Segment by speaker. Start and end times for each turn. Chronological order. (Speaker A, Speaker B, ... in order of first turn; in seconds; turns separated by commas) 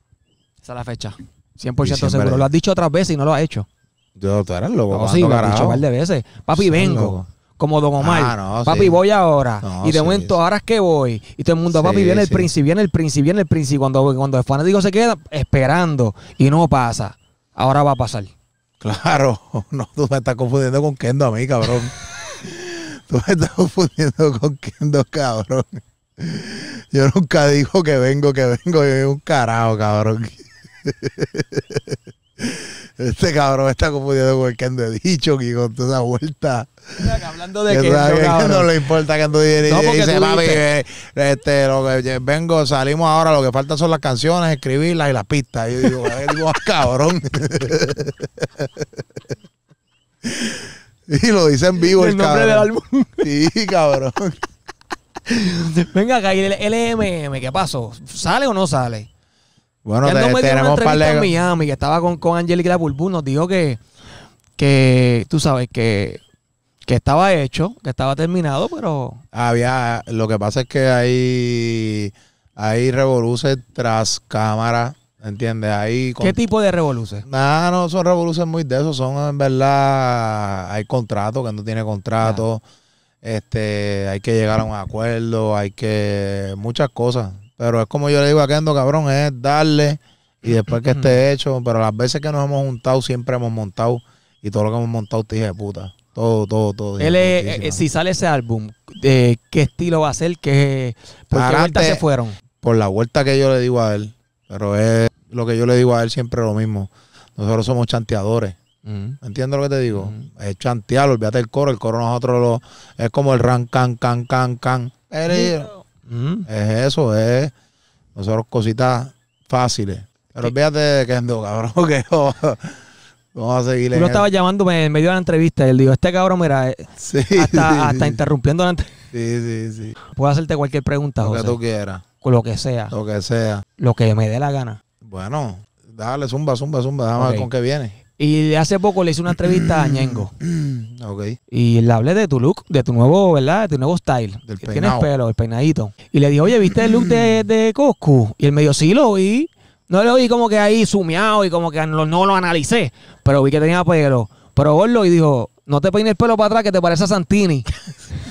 Speaker A: 0.6-3.7, Speaker B: 1.8-2.5, Speaker B: 4.2-5.9, Speaker A: 4.9-18.3, Speaker B: 6.5-7.3, Speaker B: 8.0-9.0, Speaker B: 9.6-10.4, Speaker B: 11.7-12.5, Speaker B: 18.8-48.9, Speaker A: 37.0-38.8, Speaker A: 39.6-40.6, Speaker B: 50.2-54.4, Speaker A: 51.8-53.3, Speaker A: 55.3-59.1, Speaker B: 59.9-61.3, Speaker A: 60.0-63.8, Speaker A: 64.6-66.2, Speaker A: 66.9-69.2, Speaker B: 69.3-76.4, Speaker A: 76.2-77.3, Speaker B: 77.3-82.6, Speaker B: 83.2-97.8, Speaker A: 90.8-91.2, Speaker A: 97.0-102.4, Speaker B: 101.3-102.0, Speaker B: 102.6-108.6, Speaker A: 108.8-109.2, Speaker B: 109.2-115.7, Speaker A: 109.9-110.3, Speaker A: 115.3-116.5, Speaker B: 116.5-117.5, Speaker B: 118.2-122.8, Speaker B: 123.3-124.3, Speaker A: 123.9-129.0, Speaker B: 127.0-128.2, Speaker B: 129.1-130.0, Speaker A: 130.1-131.6, Speaker B: 131.2-132.0, Speaker A: 132.2-132.9, Speaker B: 132.9-133.6, Speaker A: 133.8-134.8, Speaker B: 135.0-138.0, Speaker A: 137.2-137.5, Speaker A: 138.2-140.3, Speaker B: 139.3-141.4, Speaker A: 141.5-157.7, Speaker B: 144.5-145.1, Speaker B: 146.6-147.4